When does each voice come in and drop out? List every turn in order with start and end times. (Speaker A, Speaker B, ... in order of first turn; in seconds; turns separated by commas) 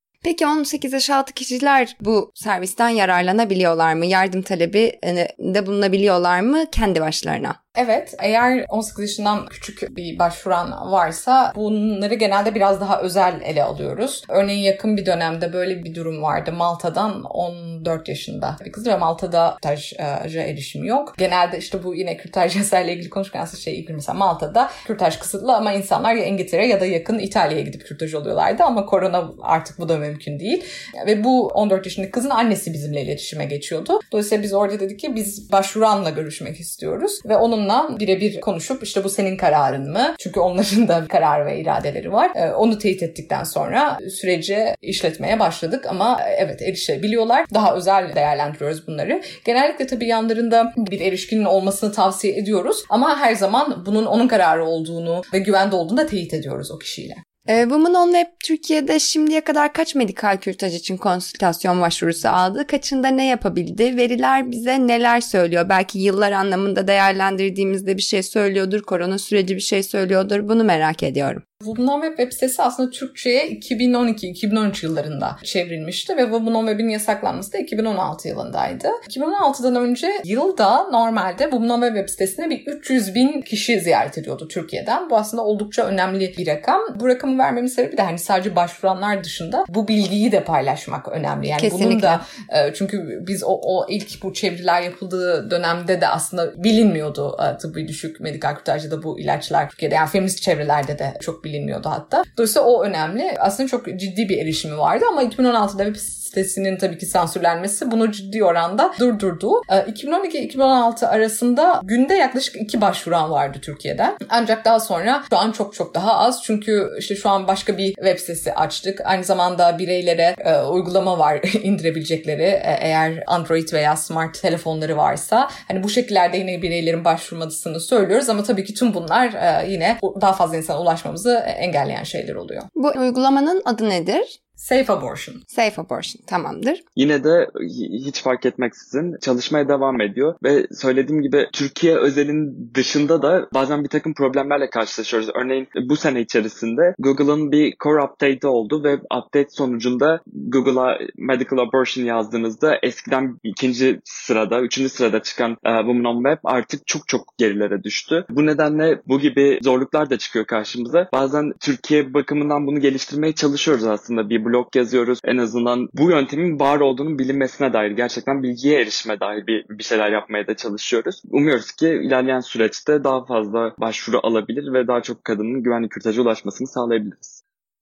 Speaker A: 0.2-7.6, Speaker B: 7.8-57.2, Speaker A: 57.5-71.4, Speaker B: 71.6-132.7, Speaker A: 91.6-92.2, Speaker A: 132.7-134.3, Speaker B: 134.6-135.4, Speaker A: 135.5-136.8, Speaker C: 137.0-177.4